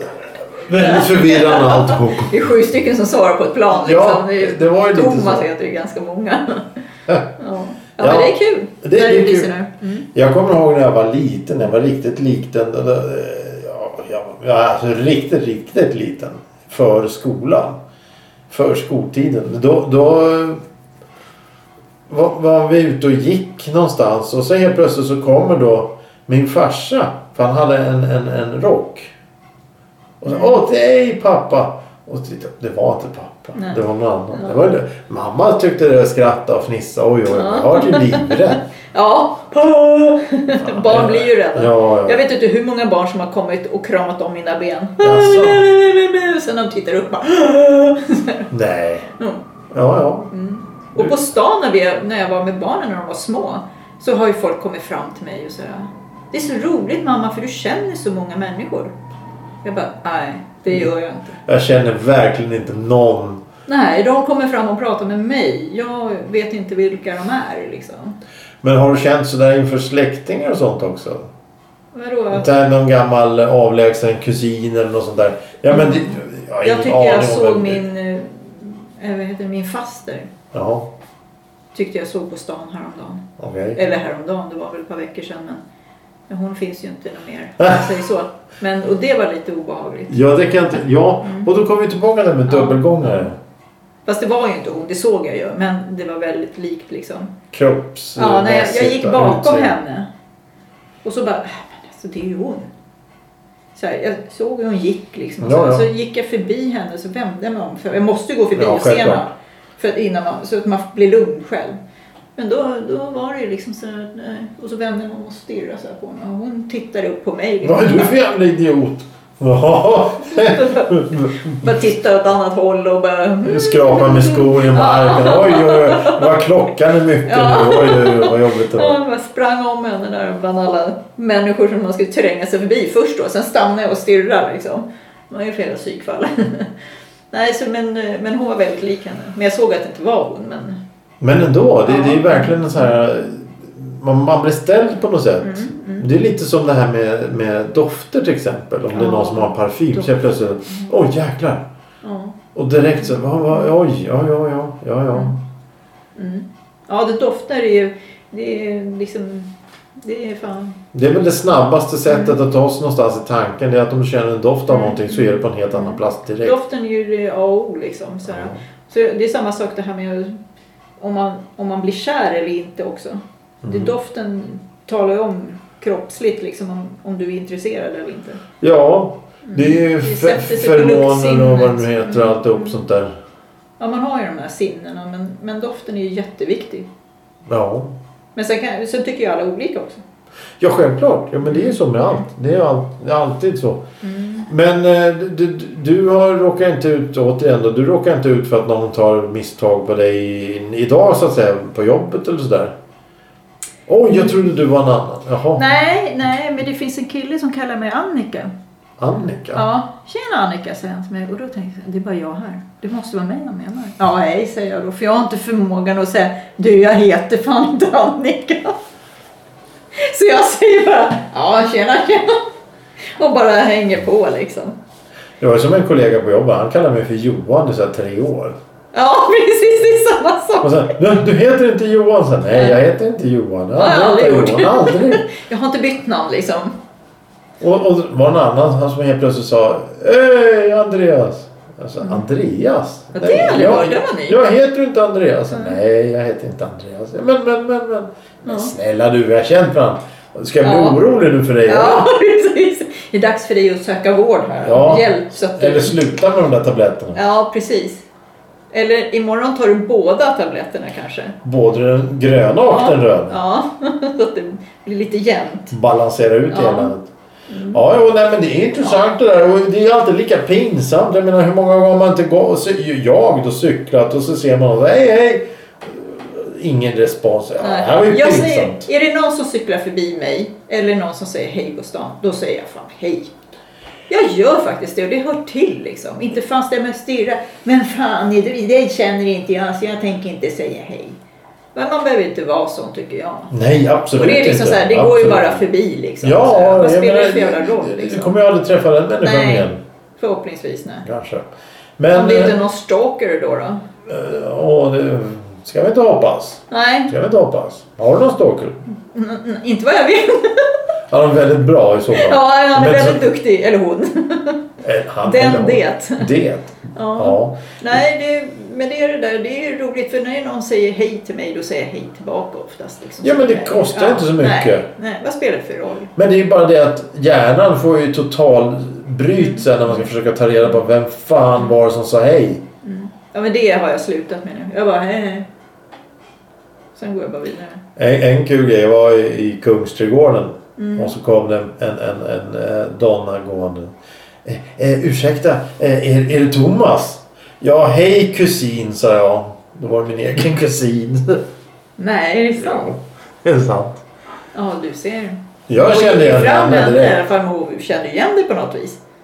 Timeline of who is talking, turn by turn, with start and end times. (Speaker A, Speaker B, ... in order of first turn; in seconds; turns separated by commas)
Speaker A: 0.5-2.4, Speaker B: 0.7-6.7, Speaker A: 3.7-5.5, Speaker A: 7.1-7.3, Speaker B: 7.4-10.1, Speaker A: 8.0-9.5, Speaker A: 10.1-17.8, Speaker A: 18.5-20.6, Speaker A: 22.1-29.1, Speaker A: 30.2-38.6, Speaker B: 30.3-30.6, Speaker B: 33.6-34.6, Speaker B: 37.3-48.5, Speaker A: 40.6-42.2, Speaker A: 45.0-45.6, Speaker A: 48.5-49.1, Speaker A: 49.7-50.3, Speaker B: 50.3-58.9, Speaker B: 59.6-61.4, Speaker A: 61.5-63.4, Speaker B: 63.7-68.2, Speaker A: 68.6-71.3, Speaker B: 71.9-72.5, Speaker A: 72.3-77.8, Speaker B: 75.7-80.3, Speaker A: 80.5-80.9, Speaker B: 81.7-85.6, Speaker A: 83.4-83.8, Speaker B: 86.3-90.2, Speaker A: 87.6-87.9, Speaker A: 90.1-93.4, Speaker B: 91.2-91.5, Speaker B: 92.5-93.1, Speaker B: 94.1-97.3, Speaker A: 97.5-99.8, Speaker B: 98.2-100.1, Speaker B: 101.0-102.7, Speaker B: 103.8-111.8, Speaker A: 105.4-105.9, Speaker A: 108.5-109.2, Speaker B: 112.4-118.1, Speaker A: 117.6-121.8, Speaker B: 120.3-126.3, Speaker A: 123.4-129.0, Speaker B: 127.2-136.7, Speaker B: 137.3-140.8, Speaker A: 141.2-151.7, Speaker B: 141.8-142.9, Speaker B: 145.4-146.1, Speaker B: 148.9-150.9, Speaker B: 152.0-152.4, Speaker A: 152.6-155.4, Speaker B: 156.2-160.8, Speaker A: 160.9-166.6, Speaker B: 162.1-162.3, Speaker B: 164.7-170.4, Speaker A: 168.3-168.6, Speaker B: 171.0-178.4, Speaker A: 173.6-173.9, Speaker A: 178.6-183.1, Speaker B: 179.4-182.8, Speaker B: 183.8-186.9, Speaker A: 187.5-187.9, Speaker B: 188.3-190.0, Speaker A: 190.6-193.8, Speaker B: 191.4-192.2, Speaker B: 194.0-194.5, Speaker A: 194.5-202.7, Speaker A: 203.9-205.8, Speaker B: 204.1-204.4, Speaker B: 205.6-208.5, Speaker A: 209.0-209.7, Speaker B: 209.5-218.8, Speaker B: 219.9-222.4, Speaker B: 223.2-224.8, Speaker A: 225.4-228.6, Speaker B: 228.9-230.9, Speaker A: 230.6-235.3, Speaker B: 232.5-232.8, Speaker B: 233.8-236.8, Speaker A: 237.6-252.1, Speaker B: 243.2-244.4, Speaker B: 248.4-248.7, Speaker B: 250.6-251.0, Speaker B: 251.7-256.0, Speaker A: 254.6-257.2, Speaker B: 257.1-258.1, Speaker B: 258.7-261.4, Speaker A: 261.4-263.4, Speaker B: 262.7-265.7, Speaker A: 265.7-267.1, Speaker B: 266.5-266.9, Speaker B: 267.5-267.8, Speaker A: 267.7-278.9, Speaker B: 277.6-283.3, Speaker B: 284.1-291.2, Speaker B: 291.8-293.5, Speaker A: 293.5-295.6, Speaker B: 294.2-298.3, Speaker A: 296.2-299.8, Speaker B: 299.2-301.1, Speaker A: 301.1-301.5, Speaker A: 302.0-302.6, Speaker B: 302.1-303.8, Speaker A: 304.1-308.8, Speaker B: 306.7-307.1, Speaker B: 309.1-310.7, Speaker A: 311.1-313.3, Speaker B: 312.1-314.6, Speaker A: 314.8-318.0, Speaker B: 315.2-316.3, Speaker B: 316.9-326.1, Speaker A: 323.2-324.9, Speaker A: 326.2-332.6, Speaker B: 329.4-330.1, Speaker B: 332.8-335.5, Speaker B: 336.9-337.8, Speaker A: 338.0-343.9, Speaker B: 340.8-341.1, Speaker A: 344.4-351.4, Speaker B: 352.0-352.9, Speaker A: 352.6-354.0, Speaker B: 354.5-359.0, Speaker A: 355.7-357.2